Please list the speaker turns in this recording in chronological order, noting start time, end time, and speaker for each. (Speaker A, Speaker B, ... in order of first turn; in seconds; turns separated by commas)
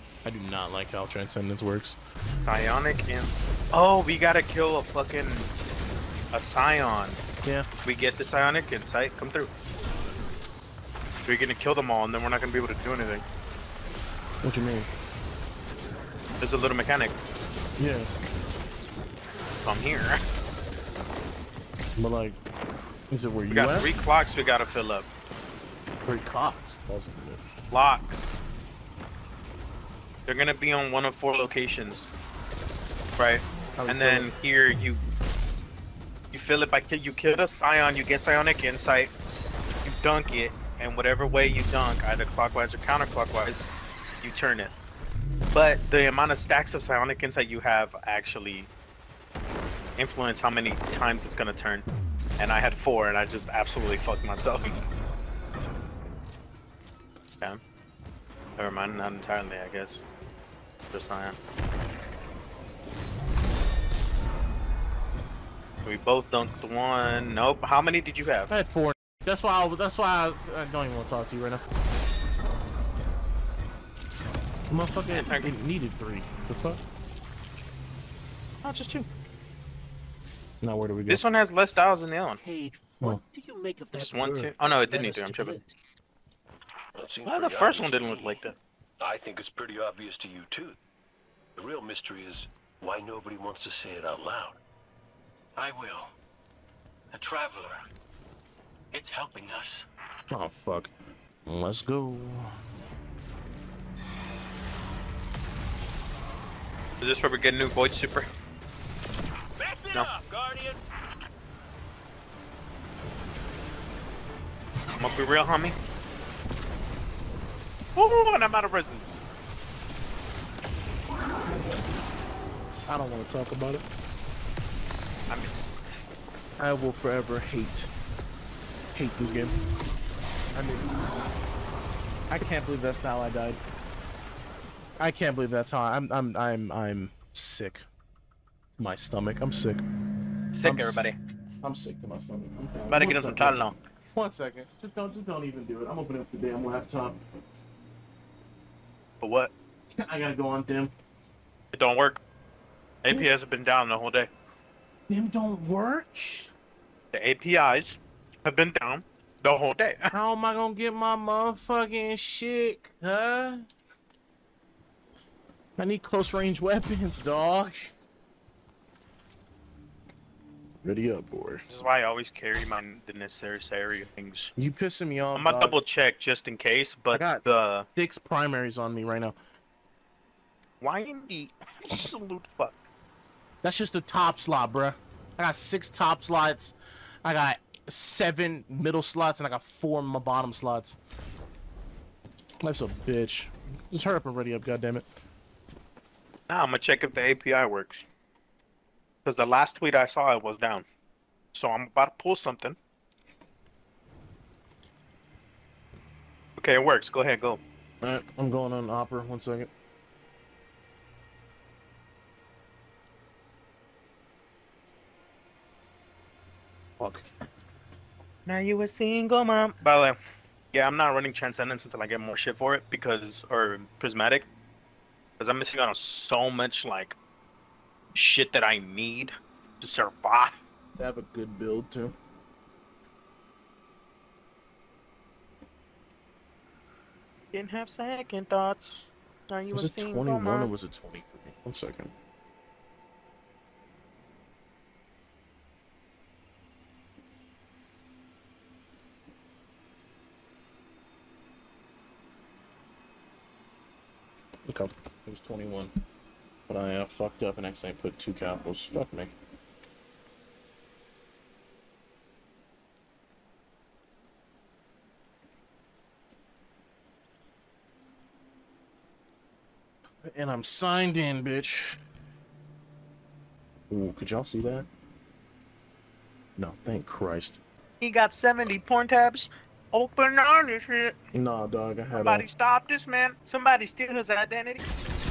Speaker A: 0.2-2.0, Speaker B: 2.5-5.5, Speaker B: 6.3-7.2, Speaker B: 7.8-9.5, Speaker B: 11.3-13.2, Speaker A: 14.4-14.9, Speaker B: 16.4-17.1, Speaker A: 17.8-18.1, Speaker B: 19.6-20.2, Speaker A: 22.0-22.4, Speaker A: 23.1-23.9, Speaker B: 23.5-25.1, Speaker A: 26.1-27.5, Speaker B: 27.7-28.3, Speaker B: 30.3-32.1, Speaker B: 33.2-35.0, Speaker A: 33.8-34.3, Speaker B: 36.3-39.1, Speaker B: 39.9-44.8, Speaker B: 45.5-48.7, Speaker B: 50.0-51.9, Speaker B: 52.4-54.8, Speaker B: 58.6-60.0, Speaker B: 60.9-61.4, Speaker B: 65.8-68.5, Speaker A: 68.5-71.6, Speaker A: 74.7-76.8, Speaker B: 75.1-75.5, Speaker B: 78.6-79.1, Speaker A: 80.6-81.2, Speaker B: 81.1-82.4, Speaker C: 82.3-85.7, Speaker B: 84.0-85.6, Speaker D: 87.0-88.4, Speaker B: 87.2-88.6, Speaker D: 89.0-90.8, Speaker D: 91.6-94.6, Speaker E: 95.6-96.2, Speaker E: 97.1-97.8, Speaker E: 98.9-99.9, Speaker A: 100.3-100.9, Speaker A: 101.5-102.5, Speaker B: 107.0-108.3, Speaker D: 109.6-110.8, Speaker B: 115.0-115.8, Speaker B: 118.0-119.2, Speaker A: 122.9-123.8, Speaker B: 125.3-125.7, Speaker A: 126.6-127.9, Speaker A: 128.9-129.6, Speaker A: 130.5-130.9, Speaker A: 132.3-133.6, Speaker A: 135.0-137.9, Speaker A: 138.8-139.8, Speaker B: 140.5-141.2, Speaker A: 140.6-141.1, Speaker A: 141.6-143.6, Speaker B: 142.9-143.8, Speaker A: 144.1-147.2, Speaker B: 149.2-149.5, Speaker A: 150.0-150.9, Speaker B: 151.7-152.2, Speaker B: 153.0-154.3, Speaker A: 155.1-156.5, Speaker B: 157.1-160.1, Speaker A: 160.1-163.7, Speaker A: 165.8-167.9, Speaker A: 170.8-171.7, Speaker B: 171.7-174.5, Speaker A: 174.6-175.8, Speaker B: 175.4-177.9, Speaker A: 177.1-179.4, Speaker B: 180.8-182.8, Speaker A: 183.6-191.0, Speaker A: 192.6-195.1, Speaker B: 196.5-198.1, Speaker B: 199.2-200.8, Speaker B: 201.5-202.8, Speaker B: 206.6-207.6, Speaker A: 208.0-209.7, Speaker A: 217.0-217.2, Speaker B: 218.5-220.2, Speaker B: 220.7-224.5, Speaker B: 225.4-227.2, Speaker B: 228.2-230.6, Speaker A: 231.0-232.2, Speaker B: 237.5-240.7, Speaker A: 239.7-242.1, Speaker A: 254.7-255.9, Speaker A: 256.7-259.3, Speaker A: 270.2-272.0, Speaker A: 273.9-274.9, Speaker A: 276.6-277.6, Speaker B: 278.0-281.1, Speaker A: 281.3-282.5, Speaker B: 282.1-284.9